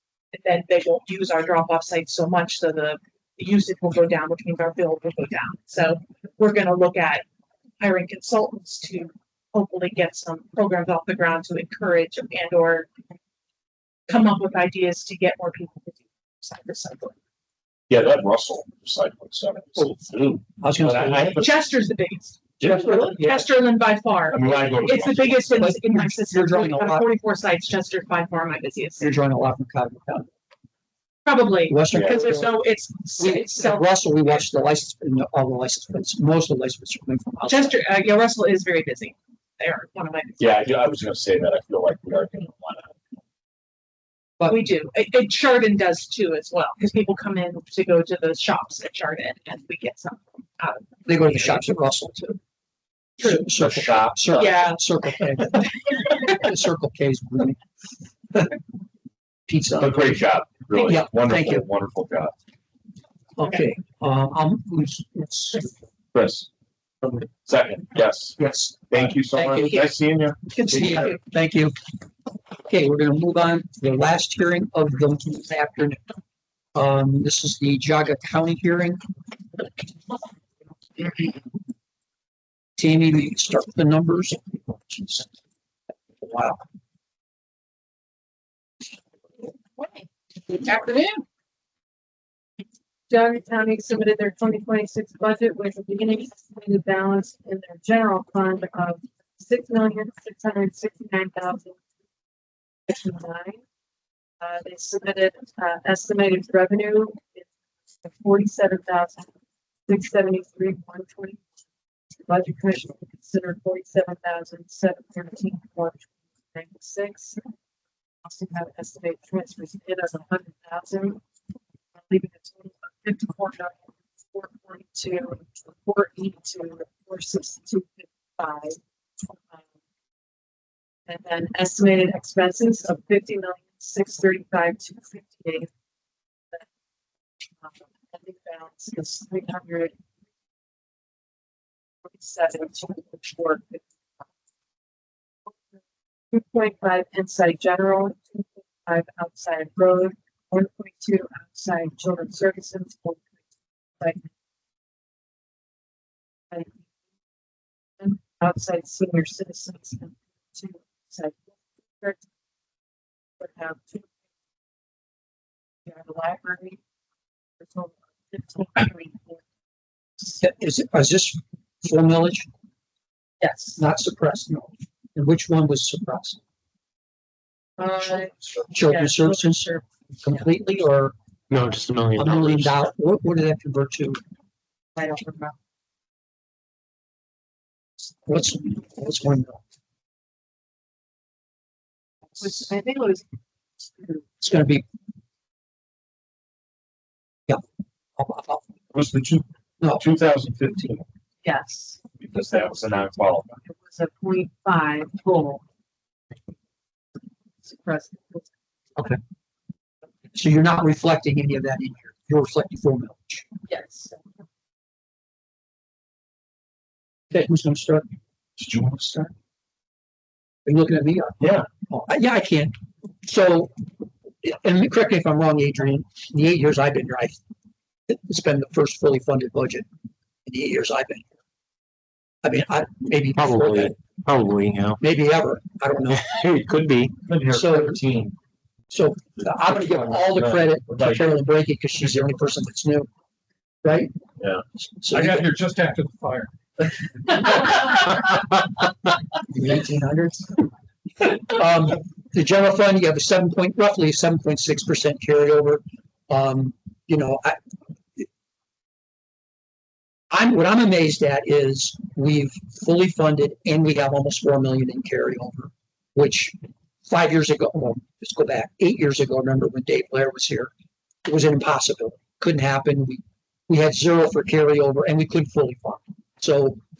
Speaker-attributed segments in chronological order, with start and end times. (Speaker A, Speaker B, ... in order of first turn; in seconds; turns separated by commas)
Speaker A: 0.3-7.2, Speaker A: 7.8-12.9, Speaker A: 14.1-17.1, Speaker B: 17.9-21.6, Speaker C: 20.6-21.4, Speaker A: 21.4-29.1, Speaker C: 22.6-23.4, Speaker B: 22.6-23.0, Speaker B: 24.3-25.7, Speaker C: 25.6-27.1, Speaker C: 29.0-30.3, Speaker A: 31.2-33.9, Speaker C: 31.7-32.5, Speaker B: 31.9-32.2, Speaker C: 33.2-37.8, Speaker A: 37.5-40.5, Speaker B: 40.4-42.9, Speaker A: 44.5-51.6, Speaker C: 51.1-52.4, Speaker C: 53.2-57.6, Speaker A: 53.2-53.5, Speaker B: 53.5-54.5, Speaker A: 54.4-54.8, Speaker C: 59.5-60.1, Speaker B: 59.8-62.3, Speaker A: 60.7-61.0, Speaker C: 60.9-61.6, Speaker C: 63.4-65.7, Speaker B: 66.1-66.5, Speaker B: 67.0-71.1, Speaker C: 68.4-69.9, Speaker C: 70.5-71.8, Speaker C: 72.7-76.0, Speaker C: 76.7-79.0, Speaker C: 82.8-85.3, Speaker C: 86.2-86.6, Speaker A: 90.5-91.2, Speaker A: 93.1-93.4, Speaker D: 93.1-94.5, Speaker A: 94.5-95.9, Speaker D: 95.9-101.8, Speaker A: 96.7-97.0, Speaker A: 100.3-100.8, Speaker D: 102.9-103.6, Speaker D: 104.4-107.5, Speaker D: 108.0-109.3, Speaker D: 109.9-111.4, Speaker D: 112.3-117.4, Speaker D: 118.2-121.2, Speaker D: 122.0-128.8, Speaker D: 131.1-135.7, Speaker D: 137.6-139.9, Speaker D: 142.1-143.9, Speaker D: 146.3-153.3, Speaker D: 154.0-154.3, Speaker D: 156.5-156.9, Speaker D: 158.0-162.2, Speaker D: 163.4-164.1, Speaker D: 165.8-166.8, Speaker D: 167.6-169.4, Speaker C: 170.4-172.5, Speaker A: 173.4-173.8, Speaker C: 173.8-176.4, Speaker D: 177.8-178.3, Speaker C: 178.7-181.1, Speaker D: 178.9-179.8, Speaker E: 181.5-182.6, Speaker D: 181.5-182.3, Speaker C: 182.2-184.2, Speaker D: 185.0-185.6, Speaker C: 188.2-189.6, Speaker D: 192.4-193.2, Speaker C: 194.4-194.8, Speaker C: 198.2-198.6, Speaker B: 198.9-201.1, Speaker D: 201.4-202.0, Speaker B: 202.2-203.6, Speaker D: 203.6-205.6, Speaker D: 207.7-208.5, Speaker C: 210.3-213.5, Speaker D: 213.7-214.1, Speaker C: 217.3-218.1, Speaker B: 218.6-219.3, Speaker C: 220.7-223.7, Speaker B: 221.4-221.7, Speaker C: 224.4-227.4, Speaker C: 228.1-229.9, Speaker C: 230.4-231.3, Speaker C: 232.4-234.0, Speaker E: 233.4-235.0, Speaker C: 235.0-236.3, Speaker E: 236.3-237.2, Speaker B: 237.3-238.0, Speaker C: 237.5-238.0, Speaker C: 238.9-243.1, Speaker B: 240.1-241.3, Speaker C: 243.8-244.1, Speaker B: 244.4-246.5, Speaker C: 245.0-245.5, Speaker C: 249.5-250.7, Speaker C: 251.2-257.6, Speaker C: 260.3-266.6, Speaker C: 267.1-270.7, Speaker C: 271.3-276.8